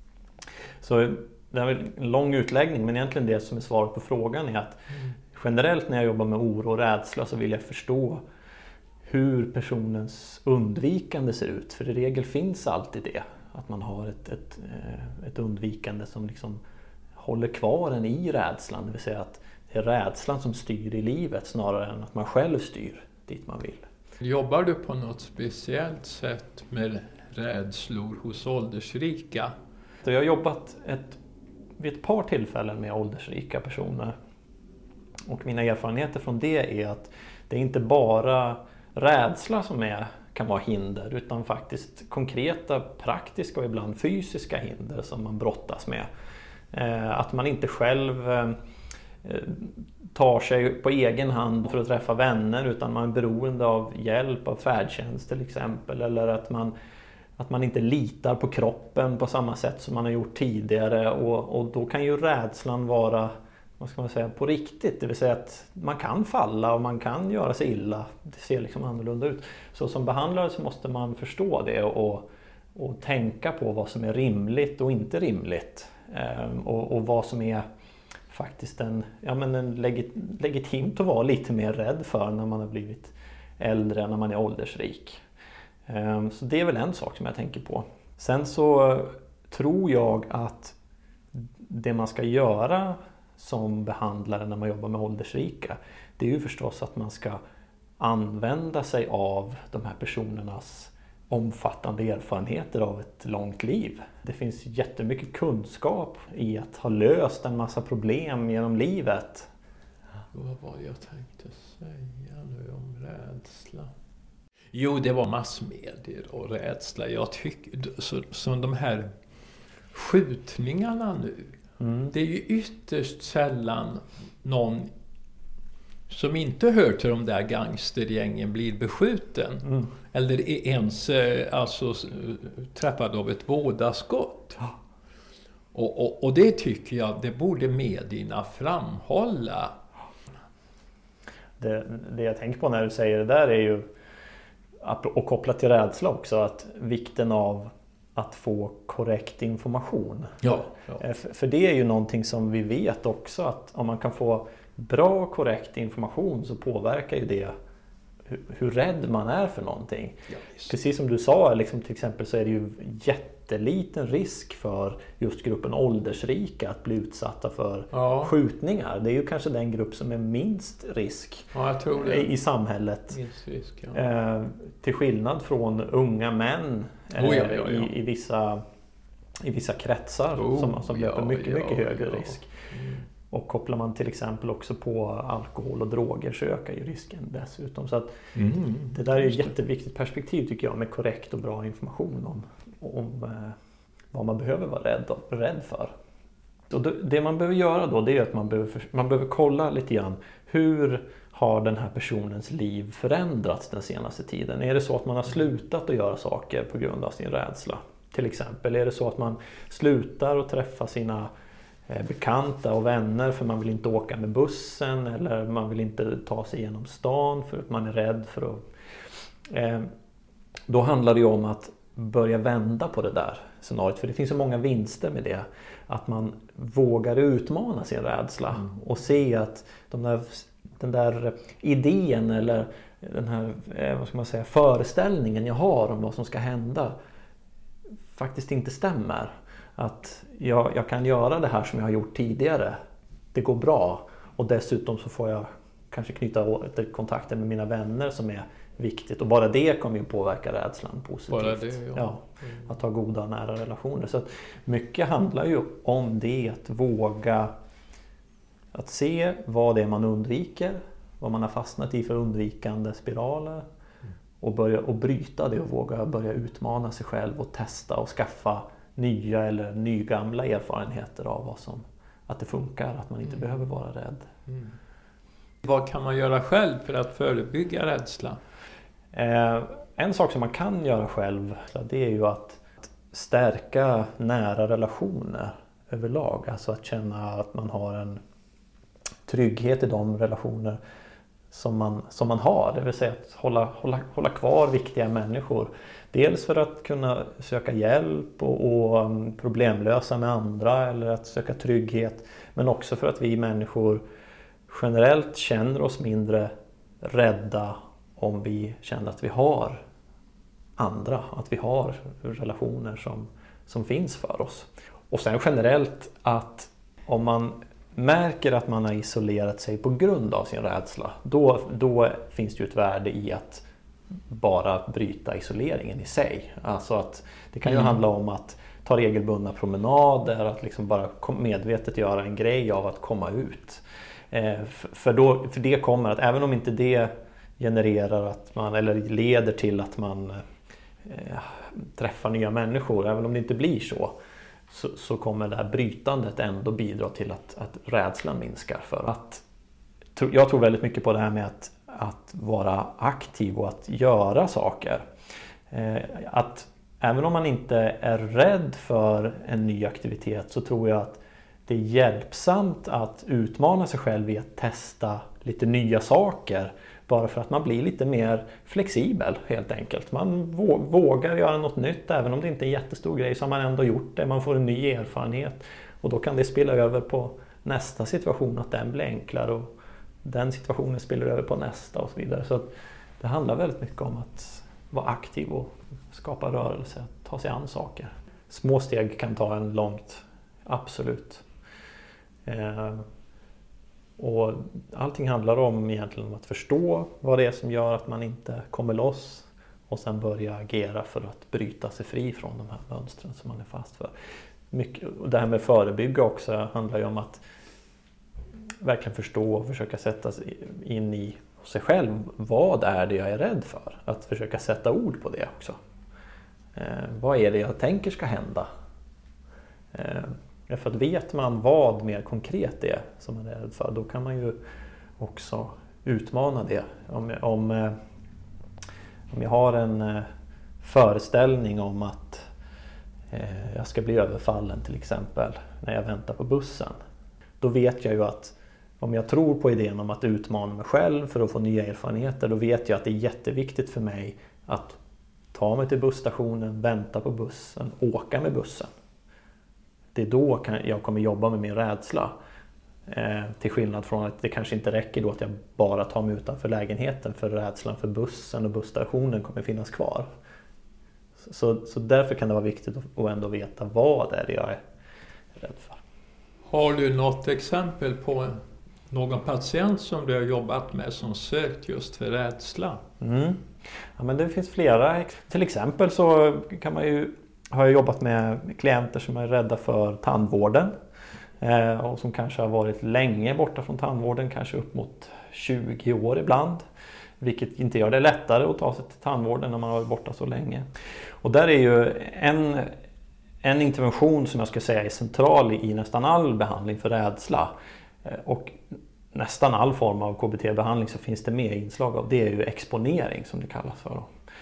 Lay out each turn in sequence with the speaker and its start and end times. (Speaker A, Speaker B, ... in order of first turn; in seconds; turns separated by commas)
Speaker A: 0.8-4.8, Speaker A: 5.3-8.2, Speaker A: 9.0-16.6, Speaker A: 17.1-23.9, Speaker B: 24.2-29.5, Speaker A: 30.0-31.2, Speaker A: 31.8-34.1, Speaker A: 35.3-46.1, Speaker A: 46.7-48.6, Speaker A: 49.2-56.7, Speaker A: 57.4-77.6, Speaker A: 78.3-85.2, Speaker A: 85.9-90.8, Speaker A: 91.3-97.4, Speaker A: 98.0-109.5, Speaker B: 110.3-113.9, Speaker B: 114.7-119.1, Speaker B: 119.9-121.6, Speaker A: 121.8-122.1, Speaker B: 122.1-124.9, Speaker B: 126.1-134.7, Speaker B: 135.7-139.7, Speaker A: 141.6-143.9, Speaker A: 144.8-157.5, Speaker B: 150.4-151.0, Speaker A: 158.2-173.2, Speaker B: 160.3-160.7, Speaker B: 167.9-168.3, Speaker B: 171.5-172.3, Speaker B: 173.1-174.0, Speaker A: 173.9-178.6, Speaker B: 177.2-177.9, Speaker A: 179.4-182.5, Speaker B: 180.3-183.0, Speaker A: 183.3-188.3, Speaker B: 188.3-189.0, Speaker A: 188.9-193.6, Speaker A: 194.1-195.9, Speaker A: 196.7-211.3, Speaker A: 211.9-218.6, Speaker A: 219.5-219.9, Speaker A: 220.7-236.9, Speaker A: 238.1-242.8, Speaker A: 243.3-257.5, Speaker B: 251.3-252.7, Speaker A: 258.7-263.6, Speaker A: 264.4-274.3, Speaker B: 274.5-274.7, Speaker B: 275.6-278.4, Speaker A: 279.1-288.2, Speaker A: 289.2-290.8, Speaker A: 291.5-304.0, Speaker A: 304.7-306.5, Speaker A: 307.0-309.8, Speaker A: 310.8-323.6, Speaker A: 324.3-340.4, Speaker A: 341.0-344.1, Speaker A: 344.7-349.4, Speaker A: 350.1-355.0, Speaker A: 355.7-382.7, Speaker A: 383.2-391.4, Speaker A: 392.4-393.1, Speaker A: 394.2-404.1, Speaker A: 404.7-407.4, Speaker A: 408.8-415.8, Speaker A: 416.7-418.7, Speaker A: 419.9-424.6, Speaker A: 425.2-427.9, Speaker A: 429.3-430.3, Speaker A: 430.8-432.4, Speaker A: 433.3-437.0, Speaker A: 437.6-445.0, Speaker A: 445.5-448.9, Speaker A: 450.1-452.3, Speaker A: 453.1-460.3, Speaker A: 461.4-464.8, Speaker A: 465.5-466.0, Speaker B: 466.7-473.0, Speaker A: 473.2-480.9, Speaker A: 481.6-486.8, Speaker A: 487.4-490.9, Speaker A: 491.4-492.9, Speaker A: 493.6-504.3